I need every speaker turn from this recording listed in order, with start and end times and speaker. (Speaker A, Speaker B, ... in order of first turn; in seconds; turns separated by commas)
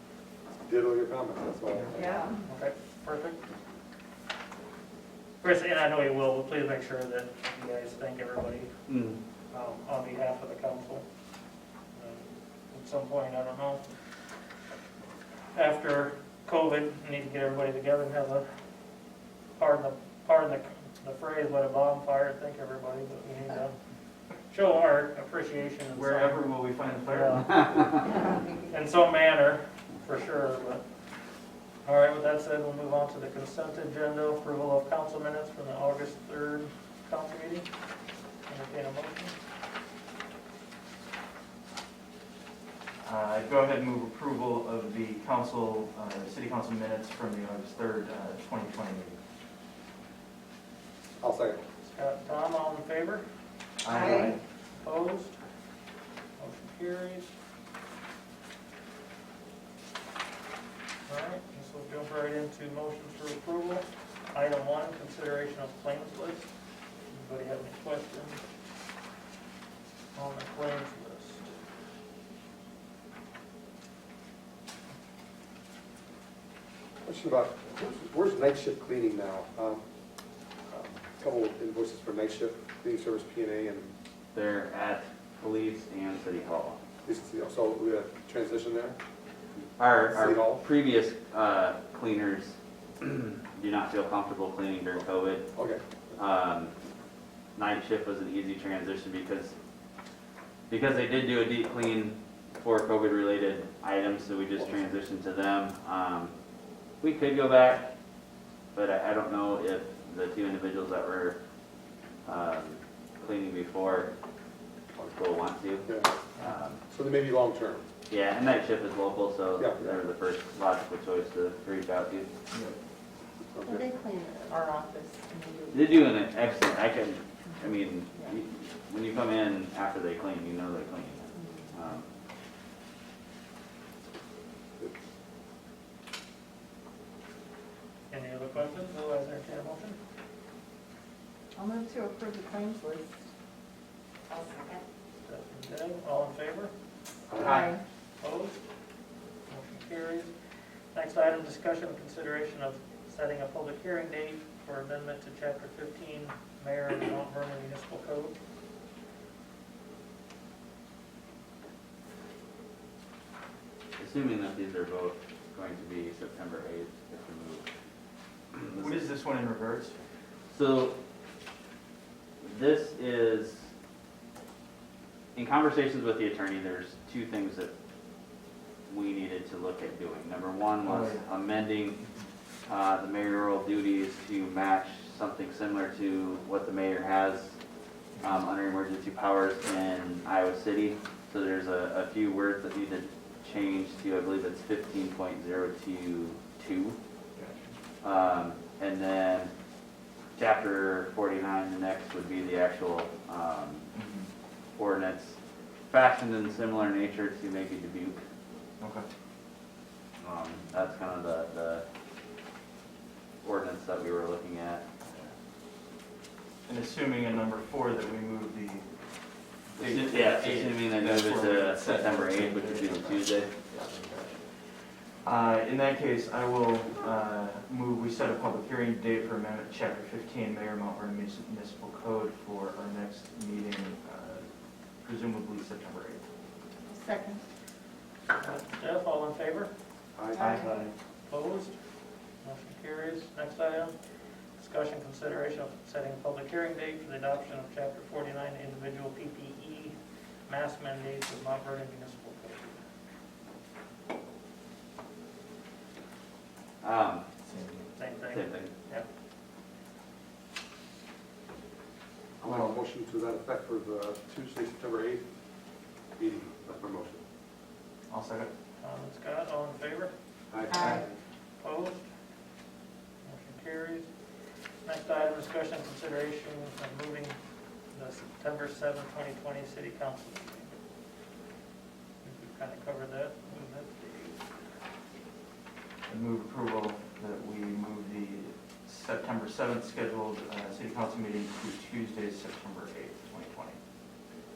Speaker A: 0.7-2.2, Speaker B: 1.9-2.4, Speaker C: 2.5-3.4, Speaker C: 5.4-8.7, Speaker D: 8.9-9.2, Speaker C: 9.5-11.1, Speaker C: 11.9-13.8, Speaker C: 15.5-18.5, Speaker C: 19.6-23.7, Speaker C: 24.5-26.5, Speaker E: 25.9-27.6, Speaker C: 27.1-27.9, Speaker C: 28.7-30.8, Speaker C: 31.9-37.7, Speaker C: 38.5-39.4, Speaker E: 43.0-49.2, Speaker A: 51.2-51.6, Speaker C: 51.8-53.2, Speaker E: 53.8-54.4, Speaker B: 53.9-54.4, Speaker C: 54.1-55.4, Speaker C: 56.4-57.3, Speaker C: 61.1-66.5, Speaker C: 67.1-68.4, Speaker C: 70.2-71.5, Speaker A: 77.0-79.8, Speaker A: 80.7-83.9, Speaker D: 84.3-86.8, Speaker A: 87.0-89.0, Speaker D: 89.8-95.5, Speaker A: 90.1-90.7, Speaker A: 95.5-95.8, Speaker D: 96.2-96.7, Speaker D: 97.6-99.5, Speaker D: 100.7-106.3, Speaker D: 107.0-107.9, Speaker D: 108.7-111.4, Speaker D: 112.2-114.1, Speaker D: 115.0-116.8, Speaker A: 116.9-117.8, Speaker D: 118.1-122.3, Speaker A: 119.6-120.0, Speaker E: 122.5-122.8, Speaker A: 123.5-123.9, Speaker B: 123.6-126.2, Speaker D: 125.7-132.1, Speaker B: 131.4-131.7, Speaker C: 138.1-140.0, Speaker B: 141.6-143.2, Speaker B: 144.3-144.8, Speaker C: 145.2-146.7, Speaker A: 147.3-147.6, Speaker B: 147.4-147.8, Speaker D: 147.4-147.7, Speaker C: 148.2-148.6, Speaker C: 149.5-150.3, Speaker C: 150.9-158.3, Speaker D: 164.0-167.7, Speaker D: 168.5-168.9, Speaker E: 168.7-170.0, Speaker D: 170.5-171.0, Speaker D: 172.4-173.7, Speaker D: 175.3-177.7, Speaker D: 178.9-182.0, Speaker E: 180.8-181.3, Speaker E: 182.0-182.3, Speaker D: 182.7-187.6, Speaker E: 188.2-188.4, Speaker D: 188.2-197.0, Speaker E: 197.3-197.8, Speaker D: 198.0-199.5, Speaker D: 200.4-203.9, Speaker E: 203.9-204.3, Speaker D: 204.8-205.4, Speaker D: 205.9-208.2, Speaker E: 208.8-209.1, Speaker D: 210.2-211.8, Speaker D: 213.4-214.8, Speaker E: 215.1-215.3, Speaker E: 216.7-218.9, Speaker E: 219.7-224.6, Speaker D: 219.8-223.5, Speaker E: 225.2-234.5, Speaker E: 235.0-236.2, Speaker B: 236.8-237.4, Speaker C: 238.4-239.7, Speaker A: 240.2-240.6, Speaker B: 240.3-240.8, Speaker E: 240.3-240.9, Speaker C: 241.3-241.8, Speaker C: 242.4-243.9, Speaker C: 244.6-250.0, Speaker C: 250.5-252.8, Speaker D: 256.8-257.2, Speaker E: 257.4-257.9, Speaker C: 258.0-259.1, Speaker D: 258.3-258.7, Speaker A: 262.4-265.2, Speaker E: 262.5-262.8, Speaker A: 266.2-267.2, Speaker E: 268.1-268.5, Speaker C: 268.8-270.1, Speaker A: 270.5-271.0, Speaker B: 270.7-271.1, Speaker E: 270.8-271.0, Speaker C: 271.6-272.0, Speaker C: 273.2-274.1, Speaker C: 274.8-277.4, Speaker C: 277.9-280.7, Speaker C: 282.2-284.4, Speaker E: 286.1-293.8